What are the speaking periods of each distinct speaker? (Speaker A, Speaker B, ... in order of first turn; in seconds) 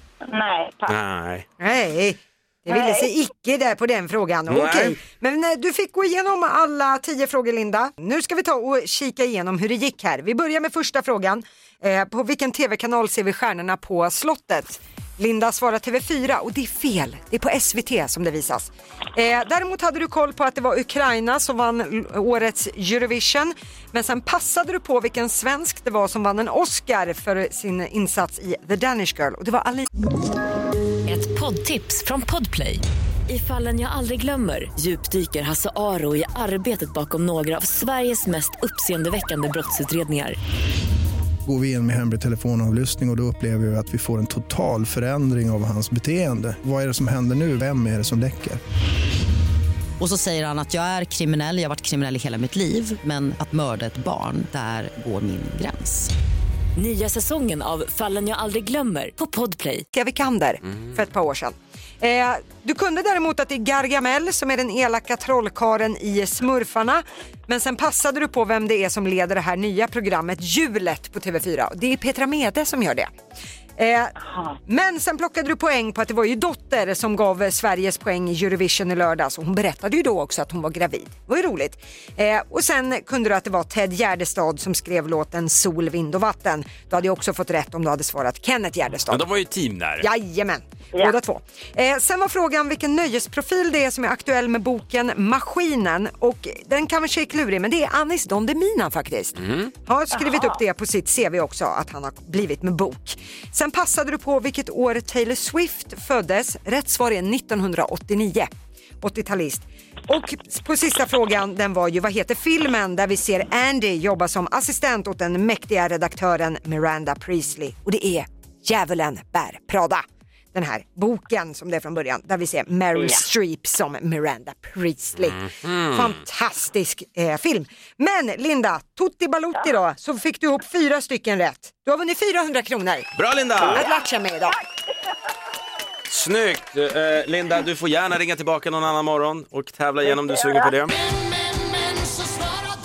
Speaker A: 0.2-0.9, 2.7-3.1, 100.1-100.6, 123.0-123.2, 133.6-133.9, 140.1-140.7
Speaker B: 0.9-1.4, 4.5-5.0, 89.1-90.1, 99.4-99.7, 125.4-126.1, 133.1-133.8, 136.1-140.9
Speaker C: 1.6-29.9, 59.9-73.1, 73.8-74.1, 74.7-89.2, 90.0-133.1, 133.6-134.6
Speaker D: 31.1-40.4, 56.8-59.9
Speaker E: 41.5-48.6
Speaker F: 50.0-56.1